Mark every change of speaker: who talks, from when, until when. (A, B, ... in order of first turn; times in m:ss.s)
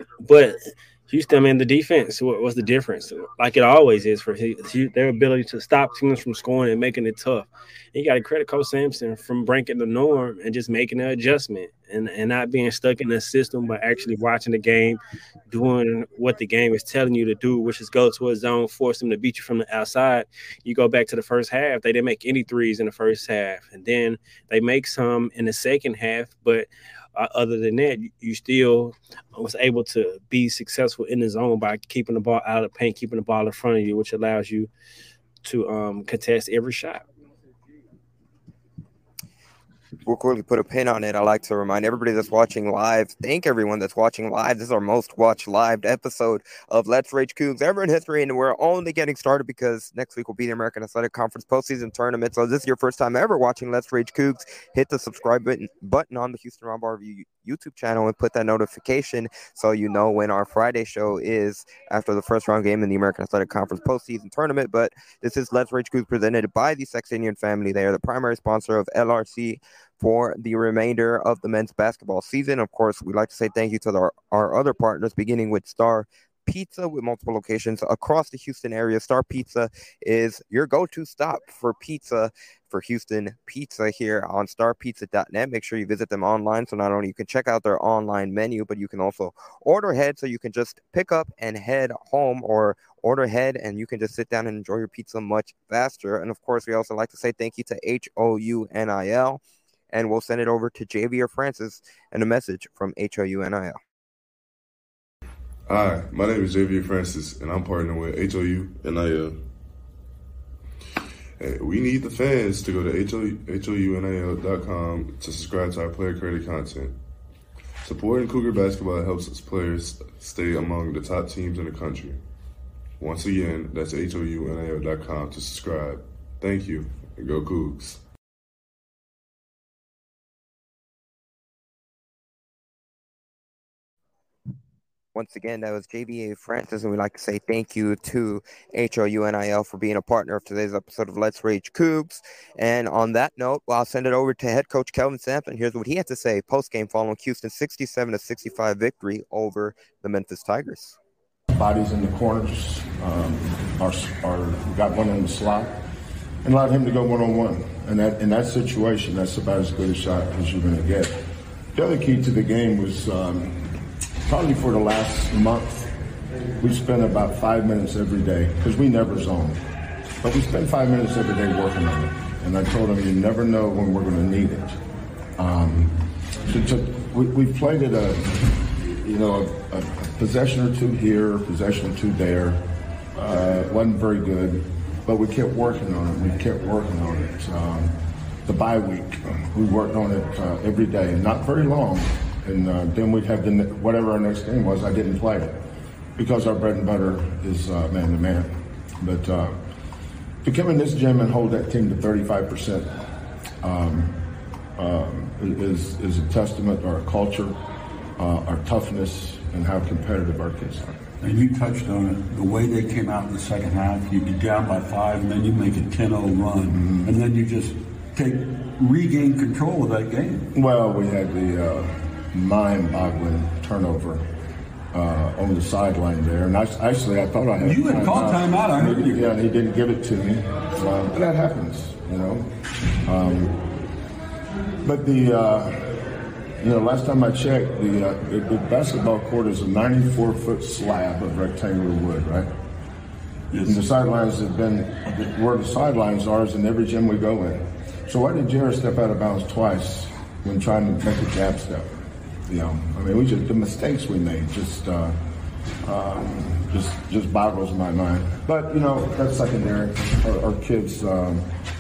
0:00.2-0:34.7 A
0:35.4-0:37.1 A
0:40.0-1:39.4 B
1:39.9-1:43.8 B
1:45.7-1:49.4 C
1:51.4-1:57.0 C
1:57.8-2:02.2 C
2:03.0-2:08.0 C
2:15.1-2:31.0 B
2:31.5-2:35.8 D
2:36.4-2:41.2 D
2:41.8-2:45.9 D
2:46.6-2:49.6 D
2:50.2-2:54.8 D
2:55.4-3:15.6 D
3:16.2-3:19.6 D
3:20.4-3:23.1 D
3:23.6-3:24.2 D
3:24.8-3:27.6 D
3:28.2-3:31.0 D
3:31.2-3:40.4 E
3:36.7-3:37.1 D
3:40.5-3:44.3 D
3:44.9-3:52.5 D
3:47.6-3:49.2 E
3:53.0-3:53.6 D
3:54.8-4:02.5 D
4:03.5-4:03.9 E
4:03.6-4:15.2 D
4:15.8-4:21.5 D